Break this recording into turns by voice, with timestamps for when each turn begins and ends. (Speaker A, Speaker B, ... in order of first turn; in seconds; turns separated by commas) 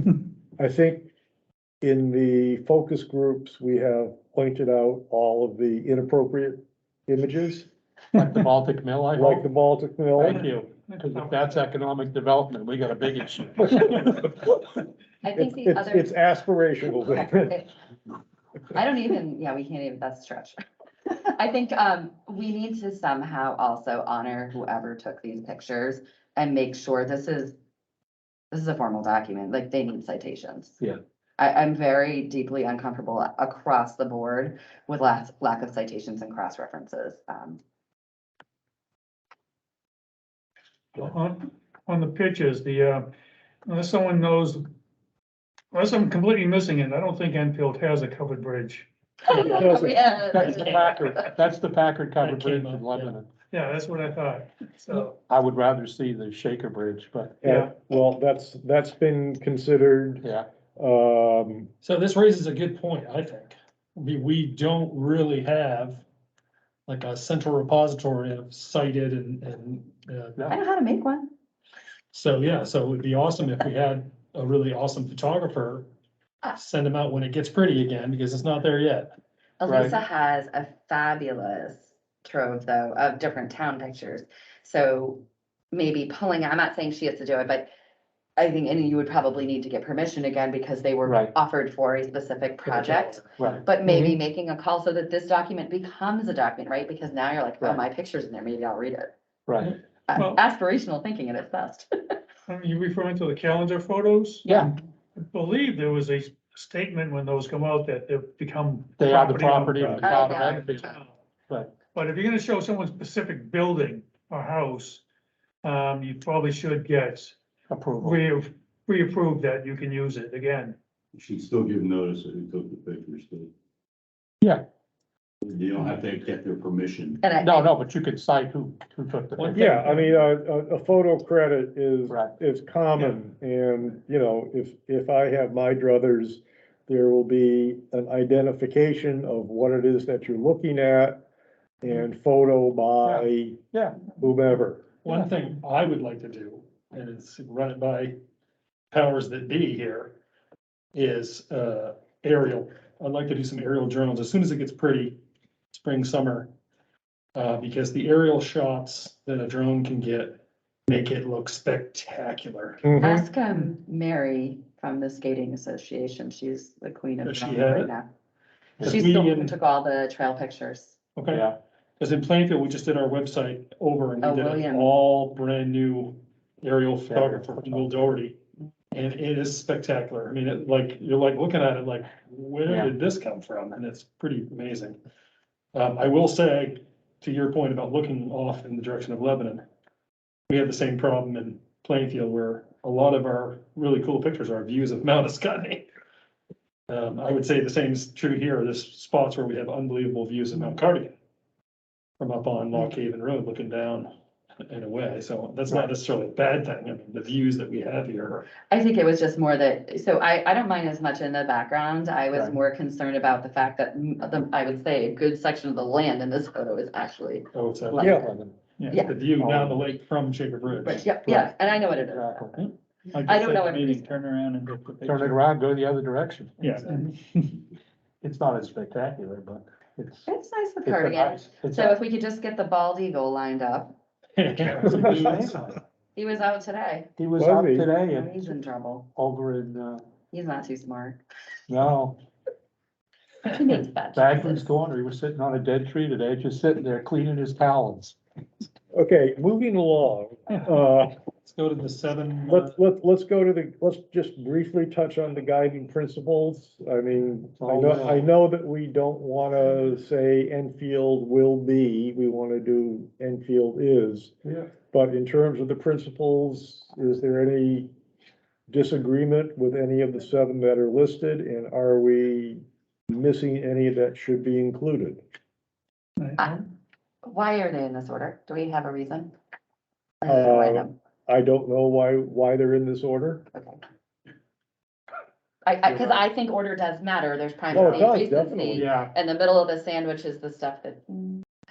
Speaker A: 0.6-1.1, Speaker A: 1.8-7.7, Speaker B: 8.1-9.5, Speaker A: 9.1-10.5, Speaker B: 10.2-14.3, Speaker C: 15.2-16.1, Speaker A: 15.3-17.6, Speaker C: 17.2-17.7, Speaker C: 18.7-20.6, Speaker C: 21.1-27.5, Speaker C: 28.5-30.8, Speaker C: 31.4-37.6, Speaker D: 40.9-43.1, Speaker D: 43.7-44.6, Speaker D: 45.7-49.6, Speaker C: 49.2-51.3, Speaker A: 49.3-50.0, Speaker B: 50.3-53.3, Speaker E: 52.2-53.1, Speaker D: 53.5-55.1, Speaker B: 54.9-57.4, Speaker A: 57.4-61.7, Speaker D: 57.4-57.7, Speaker B: 60.2-60.5, Speaker E: 61.8-66.0, Speaker E: 66.9-70.4, Speaker C: 70.5-71.3, Speaker E: 72.1-75.9, Speaker E: 76.5-79.2, Speaker C: 79.6-87.7, Speaker B: 79.7-80.0, Speaker C: 88.4-99.1, Speaker B: 91.0-91.3, Speaker E: 92.7-93.1, Speaker B: 93.4-93.6, Speaker A: 93.8-94.2, Speaker B: 99.5-99.8, Speaker C: 100.1-102.2, Speaker D: 102.5-104.8, Speaker B: 104.4-104.7, Speaker D: 105.3-111.0, Speaker B: 109.0-111.0, Speaker C: 110.0-110.8, Speaker B: 111.5-111.7, Speaker D: 111.9-115.0, Speaker D: 115.6-117.3, Speaker B: 117.7-118.2, Speaker D: 118.0-120.8, Speaker F: 121.1-123.5, Speaker F: 125.4-127.2, Speaker C: 127.2-127.7, Speaker B: 127.4-129.8, Speaker E: 129.4-130.2, Speaker A: 129.5-141.2, Speaker A: 141.8-143.6, Speaker B: 143.0-144.1, Speaker A: 144.1-144.9, Speaker E: 145.0-148.2, Speaker B: 145.1-145.3, Speaker E: 148.9-150.2, Speaker E: 150.9-155.2, Speaker E: 155.7-156.5, Speaker E: 157.3-162.8, Speaker A: 162.8-163.3, Speaker C: 163.0-168.1, Speaker E: 167.2-167.9, Speaker C: 168.8-171.0, Speaker E: 168.8-169.6, Speaker E: 171.2-171.5, Speaker B: 171.3-171.6, Speaker E: 172.0-178.4, Speaker C: 174.2-174.9, Speaker B: 177.1-177.9, Speaker E: 178.9-185.0, Speaker B: 182.7-182.9, Speaker E: 185.7-189.6, Speaker E: 190.5-195.9, Speaker E: 196.9-201.2, Speaker E: 202.2-204.1, Speaker E: 204.6-208.5, Speaker C: 208.7-218.3, Speaker E: 217.5-218.1, Speaker B: 218.0-218.6, Speaker A: 218.0-218.3, Speaker E: 218.9-221.1, Speaker B: 219.4-219.9, Speaker C: 220.8-222.7, Speaker B: 221.1-222.6, Speaker D: 223.2-224.2, Speaker C: 223.2-224.1, Speaker B: 225.0-227.1, Speaker D: 226.6-227.6, Speaker B: 228.2-230.3, Speaker C: 230.2-233.9, Speaker B: 230.8-232.0, Speaker E: 234.4-235.2, Speaker B: 234.6-235.8, Speaker C: 236.1-237.1, Speaker B: 237.2-238.5, Speaker A: 237.4-237.9, Speaker C: 238.0-239.1, Speaker B: 239.1-240.0, Speaker C: 240.3-241.2, Speaker B: 241.7-242.2, Speaker C: 243.4-244.7, Speaker B: 244.1-248.2, Speaker A: 248.9-251.2, Speaker E: 251.4-252.7, Speaker A: 252.5-264.3, Speaker B: 257.6-258.3, Speaker A: 264.9-267.9, Speaker A: 268.7-275.2, Speaker D: 276.2-276.5, Speaker C: 276.4-276.6, Speaker C: 277.2-279.3, Speaker C: 280.2-280.9, Speaker A: 280.3-283.4, Speaker C: 283.5-283.8, Speaker C: 285.6-291.4, Speaker A: 285.9-286.2, Speaker B: 287.7-288.0, Speaker A: 287.7-288.9, Speaker B: 288.7-289.1